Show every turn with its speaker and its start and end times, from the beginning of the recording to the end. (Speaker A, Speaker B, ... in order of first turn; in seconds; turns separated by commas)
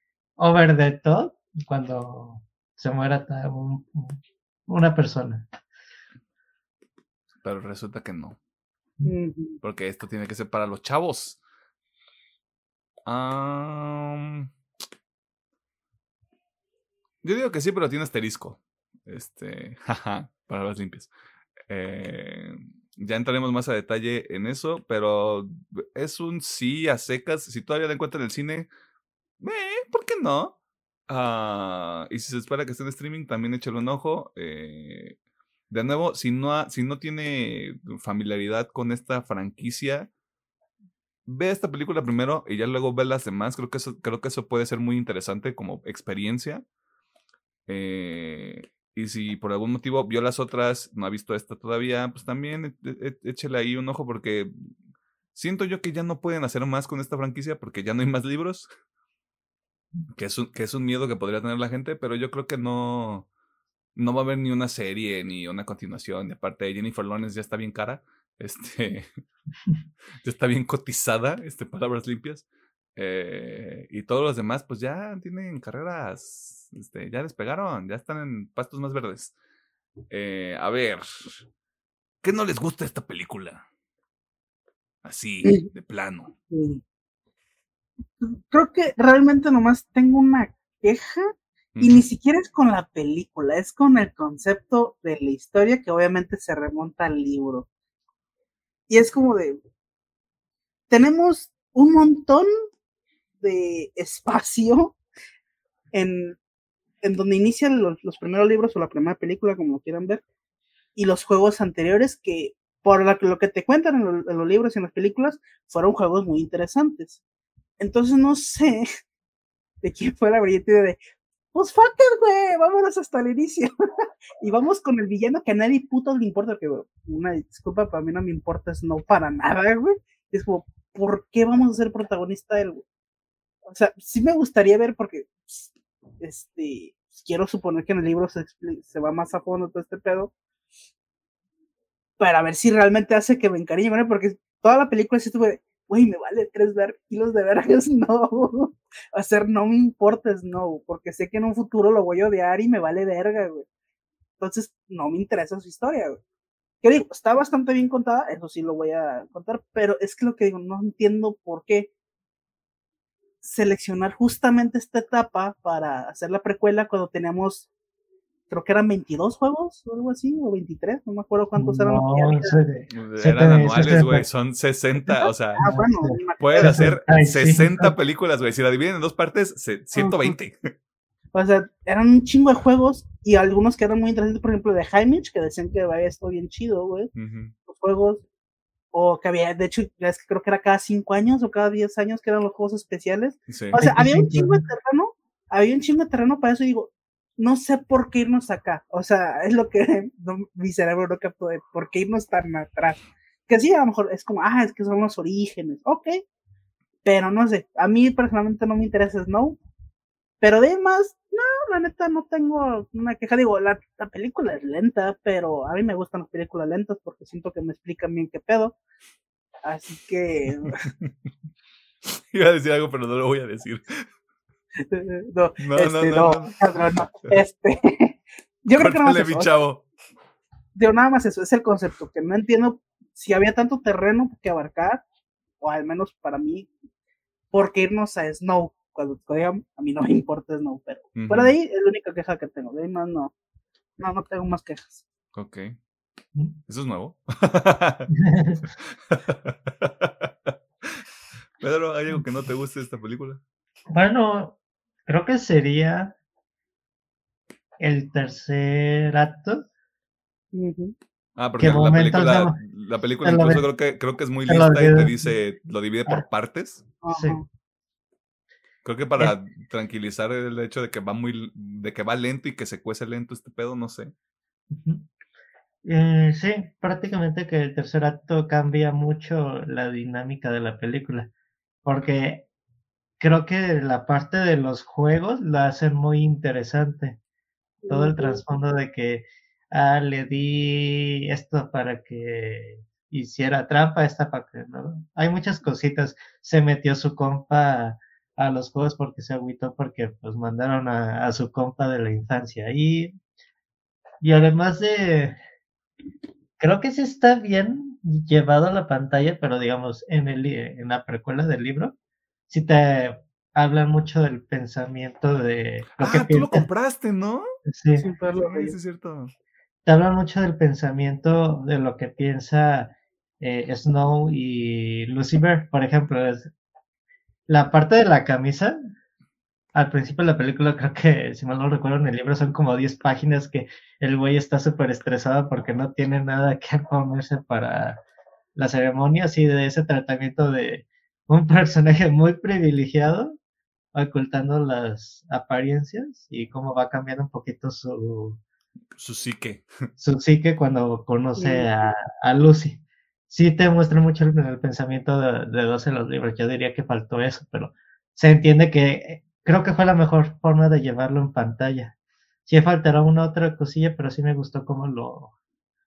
Speaker A: 0.4-5.5, Speaker B: 7.4-8.4, Speaker C: 9.1-9.6, Speaker B: 9.6-11.4, Speaker B: 13.1-14.5, Speaker B: 17.2-21.1, Speaker B: 21.7-28.7, Speaker B: 29.4-30.6, Speaker B: 31.1-35.2, Speaker B: 35.7-40.1, Speaker B: 41.3-46.6, Speaker B: 47.7-54.5, Speaker B: 55.4-58.7, Speaker B: 60.1-63.3, Speaker B: 64.0-69.1, Speaker B: 70.2-72.5, Speaker B: 73.0-79.3, Speaker B: 80.1-81.4, Speaker B: 82.2-83.7, Speaker B: 85.0-86.3, Speaker C: 86.5-86.8, Speaker C: 88.2-97.7, Speaker B: 91.8-92.0, Speaker C: 98.9-99.6, Speaker C: 100.9-102.5, Speaker C: 103.4-105.0, Speaker C: 105.9-106.4, Speaker C: 107.0-110.2, Speaker C: 111.0-117.2, Speaker C: 117.8-118.9, Speaker C: 119.8-121.0, Speaker C: 121.5-123.7, Speaker C: 124.4-132.8, Speaker C: 133.7-140.3, Speaker C: 142.2-153.7, Speaker C: 154.4-156.2, Speaker C: 156.8-161.9, Speaker C: 163.4-167.7, Speaker C: 168.5-172.6, Speaker A: 171.6-174.2, Speaker B: 172.9-175.7, Speaker C: 175.1-176.9, Speaker A: 175.6-177.9, Speaker B: 176.4-180.7, Speaker C: 180.0-180.4, Speaker C: 181.3-187.1, Speaker B: 187.2-187.6, Speaker C: 187.7-188.2, Speaker C: 188.9-206.2, Speaker B: 193.5-193.8, Speaker A: 193.8-194.7, Speaker C: 207.0-209.6, Speaker C: 210.4-218.8, Speaker C: 219.6-220.8, Speaker B: 220.8-221.1, Speaker B: 222.1-224.1, Speaker C: 224.8-229.5, Speaker B: 225.6-226.6, Speaker B: 228.7-229.8, Speaker C: 230.8-235.0, Speaker C: 235.6-236.7, Speaker C: 237.5-243.3, Speaker B: 241.2-241.5, Speaker C: 244.0-245.1, Speaker B: 245.3-245.8, Speaker B: 246.7-248.1, Speaker A: 248.2-248.7, Speaker B: 248.9-251.0, Speaker B: 251.6-253.4, Speaker A: 253.9-254.6, Speaker A: 255.1-256.1, Speaker A: 257.8-259.7, Speaker C: 260.5-260.9, Speaker B: 261.4-266.9, Speaker A: 261.6-262.6, Speaker A: 263.2-263.6, Speaker A: 264.5-265.3, Speaker C: 267.0-267.5, Speaker A: 267.1-267.4, Speaker B: 268.8-274.1, Speaker A: 274.7-275.1, Speaker A: 275.8-281.3, Speaker A: 281.9-282.5, Speaker A: 283.2-287.2, Speaker C: 287.8-288.4, Speaker A: 287.9-303.2, Speaker A: 304.2-305.4, Speaker A: 306.6-311.9, Speaker A: 312.5-316.7, Speaker B: 316.0-317.5, Speaker A: 317.7-318.1, Speaker C: 318.0-318.8, Speaker B: 318.4-319.3, Speaker A: 319.9-326.5, Speaker A: 327.5-328.8, Speaker A: 329.8-338.0, Speaker A: 338.6-343.4, Speaker A: 343.9-348.4, Speaker B: 349.0-349.7, Speaker A: 350.0-361.9, Speaker C: 351.4-351.7, Speaker A: 362.5-365.3